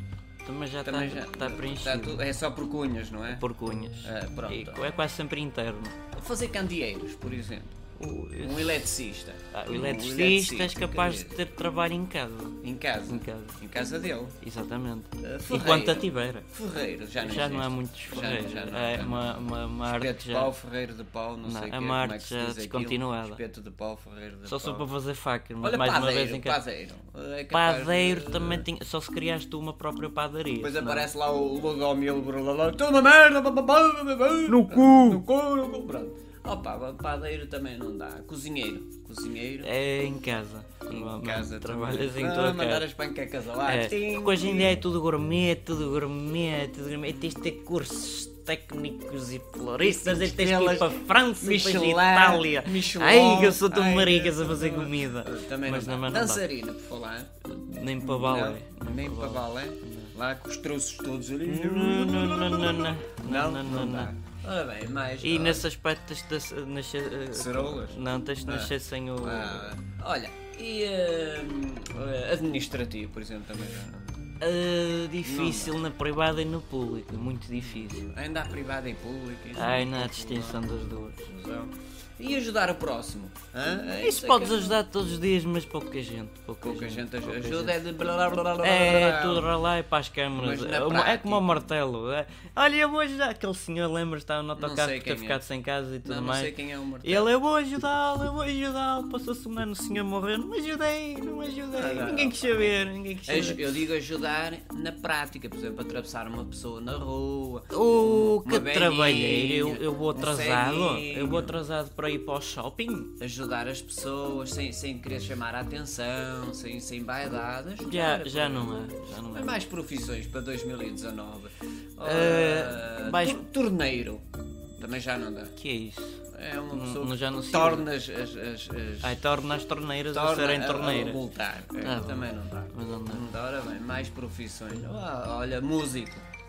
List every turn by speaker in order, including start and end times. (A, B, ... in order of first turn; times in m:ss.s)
0:00.4-0:02.2 A
0:00.8-0:03.4 B
0:03.3-0:06.0 A
0:04.0-0:04.9 B
0:06.1-0:07.8 B
0:08.0-0:08.9 A
0:08.4-0:11.4 B
0:09.5-0:13.6 A
0:12.6-0:14.4 B
0:14.4-0:16.5 A
0:15.2-0:24.8 B
0:17.2-0:20.5 A
0:21.4-0:23.4 A
0:24.4-0:26.6 A
0:25.6-0:28.6 B
0:27.5-0:31.1 A
0:30.6-0:39.7 B
0:34.5-0:35.2 A
0:39.6-0:42.9 A
0:40.9-0:44.8 B
0:43.6-0:56.4 A
0:49.8-0:57.3 B
0:57.4-1:00.1 A
0:58.0-1:05.6 B
1:01.4-1:04.1 A
1:05.2-1:09.7 A
1:07.3-1:14.2 B
1:14.4-1:18.0 A
1:15.2-1:15.8 B
1:17.6-1:24.8 B
1:19.5-1:21.2 A
1:23.9-1:27.8 A
1:26.6-1:29.5 B
1:28.6-1:43.7 A
1:30.3-1:31.6 B
1:34.6-1:35.4 B
1:36.0-1:37.3 B
1:41.7-1:51.6 B
1:47.7-1:53.1 A
1:53.2-1:58.8 B
1:57.8-1:59.6 A
1:59.3-2:04.2 B
2:02.0-2:03.4 A
2:04.8-2:05.5 B
2:05.6-2:07.9 A
2:06.3-2:09.2 B
2:09.0-2:11.2 A
2:10.1-2:16.3 B
2:11.8-2:13.2 A